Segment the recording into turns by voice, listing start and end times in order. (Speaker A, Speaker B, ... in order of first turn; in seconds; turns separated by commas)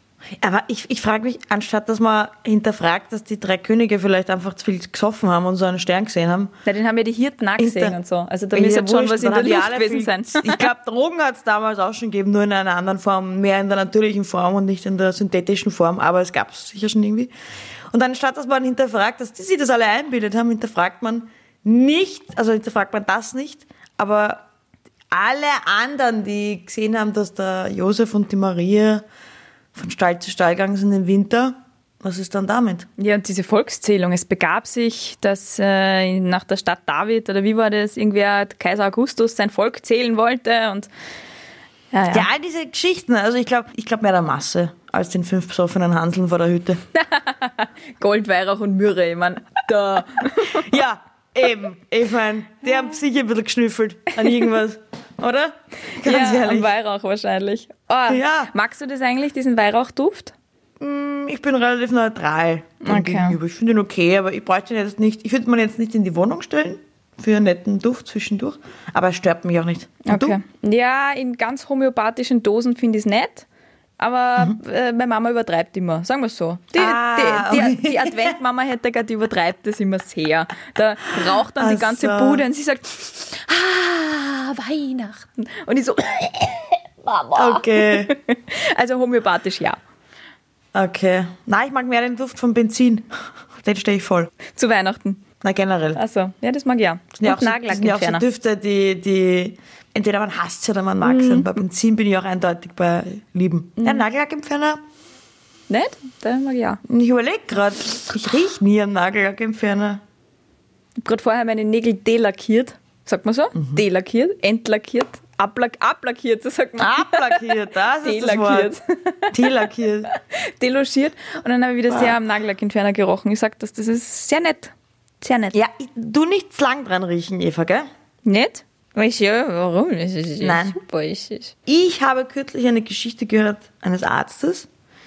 Speaker A: 0.4-6.5, Speaker B: 6.7-10.7, Speaker A: 7.6-8.0, Speaker A: 8.5-17.3, Speaker A: 17.9-24.4, Speaker A: 25.1-29.0, Speaker A: 29.7-32.9, Speaker B: 33.0-40.9, Speaker B: 41.9-42.3, Speaker A: 42.1-46.8, Speaker B: 46.9-50.7, Speaker A: 50.4-56.7, Speaker B: 56.0-60.3, Speaker A: 58.1-58.5, Speaker A: 60.8-70.4, Speaker B: 62.8-63.4, Speaker B: 70.0-73.5, Speaker B: 74.0-89.8, Speaker A: 76.7-78.4, Speaker A: 81.5-82.4, Speaker A: 87.3-88.1, Speaker A: 90.7-94.3, Speaker B: 94.5-95.2, Speaker A: 95.4-96.0, Speaker B: 95.9-98.2, Speaker A: 97.2-104.8, Speaker B: 101.0-101.5, Speaker B: 103.8-104.0, Speaker B: 105.7-106.8, Speaker A: 106.9-110.0, Speaker B: 111.0-125.5, Speaker A: 113.5-113.8, Speaker A: 116.8-118.7, Speaker A: 119.3-120.1, Speaker A: 121.9-122.2, Speaker A: 125.5-127.9, Speaker B: 128.2-131.5, Speaker A: 130.4-130.8, Speaker A: 131.7-134.7